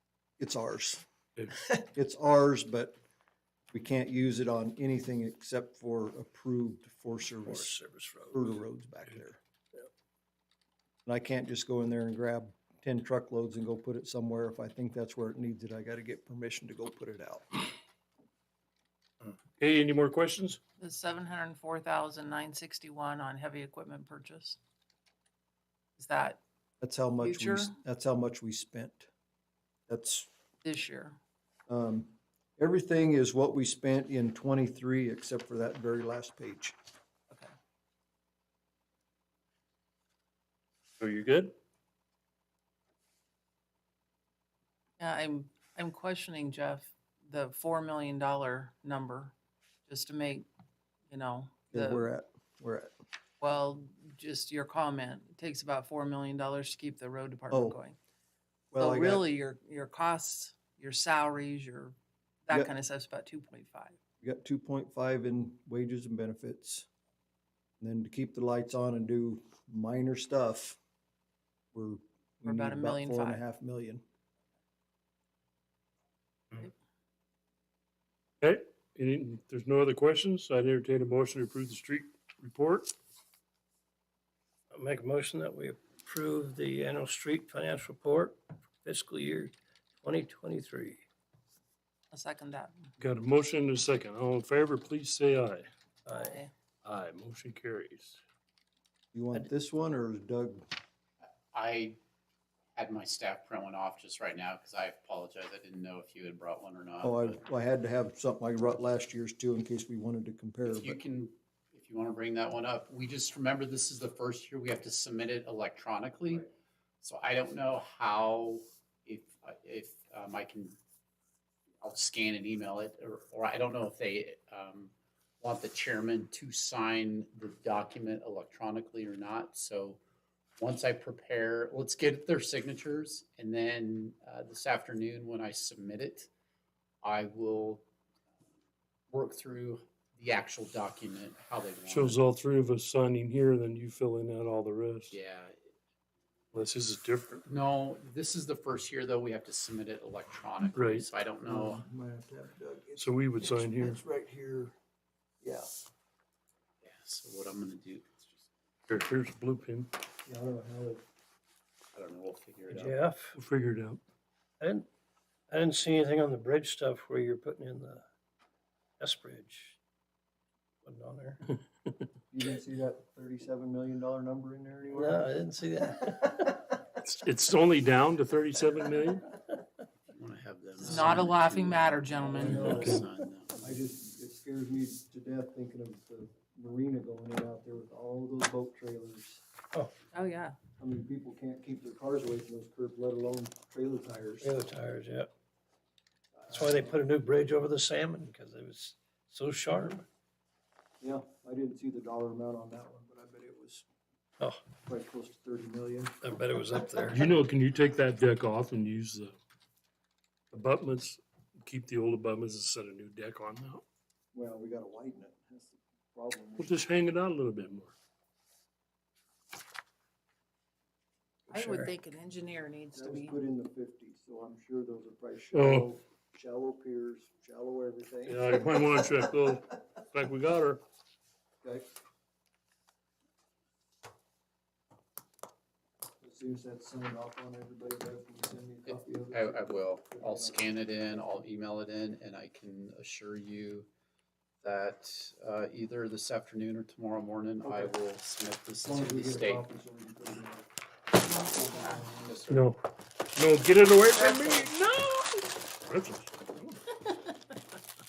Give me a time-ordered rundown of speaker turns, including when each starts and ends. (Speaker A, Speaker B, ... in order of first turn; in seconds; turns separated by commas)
Speaker A: 0.4-1.0, Speaker A: 1.9-3.0, Speaker A: 3.7-7.8, Speaker B: 7.4-8.6, Speaker A: 8.3-9.4, Speaker A: 11.1-17.6, Speaker C: 19.6-20.6, Speaker D: 20.8-24.5, Speaker D: 26.0-26.4, Speaker A: 26.8-29.1, Speaker D: 27.2-27.7, Speaker A: 29.9-30.3, Speaker D: 30.6-31.0, Speaker A: 31.7-36.8, Speaker C: 41.0-41.5, Speaker D: 45.0-49.3, Speaker D: 49.9-50.5, Speaker D: 51.1-52.1, Speaker A: 51.7-52.9, Speaker D: 53.4-58.0, Speaker A: 57.5-57.8, Speaker A: 58.7-59.2, Speaker D: 58.8-61.9, Speaker D: 62.5-63.9, Speaker A: 64.2-66.9, Speaker A: 67.8-70.8, Speaker A: 71.7-74.0, Speaker D: 72.5-73.4, Speaker C: 78.4-82.9, Speaker B: 84.7-91.0, Speaker D: 92.1-92.7, Speaker C: 93.0-95.7, Speaker B: 96.0-96.4, Speaker D: 96.2-96.5, Speaker C: 96.8-98.2, Speaker A: 99.1-100.7, Speaker E: 101.5-102.0, Speaker E: 102.8-107.4, Speaker A: 107.0-111.0, Speaker E: 110.6-116.5, Speaker E: 117.0-120.8, Speaker E: 121.8-130.0, Speaker E: 130.6-136.3, Speaker E: 137.0-137.8, Speaker E: 139.1-142.2, Speaker C: 141.9-145.1, Speaker E: 145.1-145.6, Speaker C: 146.5-147.4, Speaker E: 147.4-151.8, Speaker C: 150.7-151.1, Speaker A: 151.4-154.7, Speaker C: 153.0-154.0, Speaker A: 155.4-155.7, Speaker E: 156.8-158.3, Speaker C: 158.9-159.9, Speaker A: 160.2-161.0, Speaker E: 161.9-163.0, Speaker B: 162.7-163.3, Speaker C: 163.3-164.0, Speaker B: 164.6-164.9, Speaker B: 165.5-168.0, Speaker B: 169.0-169.8, Speaker B: 170.8-171.4, Speaker A: 172.3-175.2, Speaker B: 174.9-176.8, Speaker C: 177.0-179.3, Speaker E: 180.1-183.7, Speaker D: 180.8-182.8, Speaker A: 180.8-181.2, Speaker A: 182.1-189.4, Speaker C: 182.6-183.0, Speaker D: 190.1-190.5, Speaker A: 190.8-194.5, Speaker B: 194.4-195.3, Speaker A: 196.3-197.0, Speaker B: 196.5-200.1, Speaker A: 201.0-203.8, Speaker A: 204.8-206.2, Speaker B: 206.2-207.3, Speaker C: 207.1-209.4, Speaker C: 210.5-213.8, Speaker A: 214.3-216.8, Speaker C: 216.6-217.9, Speaker B: 221.5-221.9, Speaker D: 221.5-223.3, Speaker A: 222.9-228.7, Speaker C: 225.5-225.9, Speaker C: 228.3-230.8, Speaker A: 236.2-240.7, Speaker E: 238.8-243.9, Speaker E: 244.6-249.6, Speaker A: 247.6-247.9, Speaker A: 248.8-250.7, Speaker A: 251.2-252.4, Speaker E: 252.2-252.7, Speaker C: 252.5-252.8, Speaker C: 253.3-256.8, Speaker D: 254.3-254.6